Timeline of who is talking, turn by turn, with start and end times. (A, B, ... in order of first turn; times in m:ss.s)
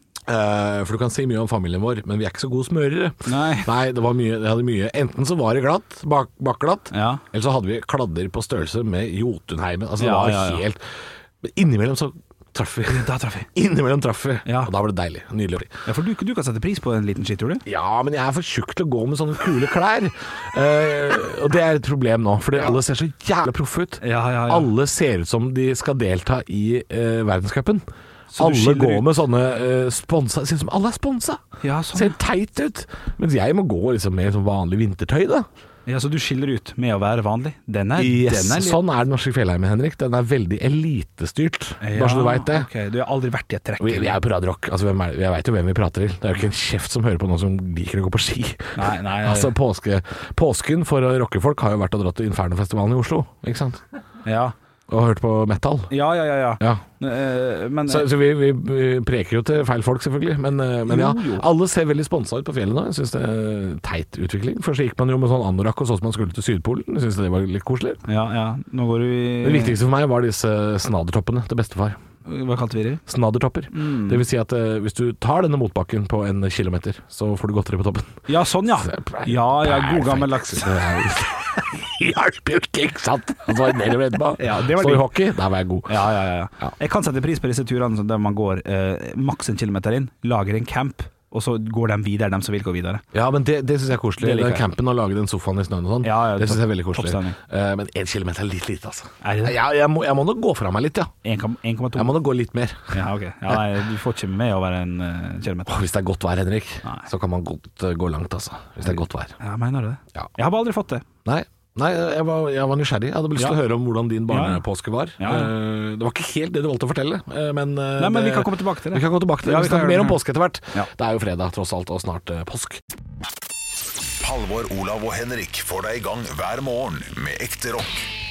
0:00.3-0:15.7 A
0:03.3-0:03.7 B
0:06.9-0:07.2 B
0:10.0-0:10.6 B
0:12.9-0:13.5 B
0:14.4-0:14.7 B
0:15.8-0:17.6 B
0:17.6-0:27.8 A
0:24.0-0:24.7 B
0:28.3-0:29.1 B
0:28.4-0:35.5 A
0:31.6-0:32.2 B
0:35.9-0:38.8 B
0:38.0-0:42.7 A
0:41.8-0:44.2 B
0:43.8-0:53.8 A
0:48.8-0:49.5 B
0:54.2-0:54.5 B
0:54.9-0:55.9 A
0:55.9-0:58.1 B
0:57.9-1:08.0 A
1:00.9-1:01.4 B
1:08.1-1:09.8 B
1:09.4-1:12.0 A
1:12.2-1:13.0 B
1:13.0-1:18.3 A
1:13.7-1:14.2 B
1:18.3-1:20.8 B
1:18.8-1:26.7 A
1:24.4-1:25.1 B
1:25.9-1:33.0 B
1:33.1-1:41.1 A
1:34.2-1:34.7 B
1:36.0-1:37.4 B
1:39.2-1:39.6 B
1:41.2-1:42.2 B
1:41.9-1:43.6 A
1:42.9-1:45.8 B
1:45.7-1:49.3 A
1:46.8-1:47.1 B
1:48.8-1:51.0 B
1:51.2-2:02.8 A
1:54.3-1:54.6 B
1:55.2-1:55.5 B
1:58.0-2:00.2 B
2:04.2-2:08.1 C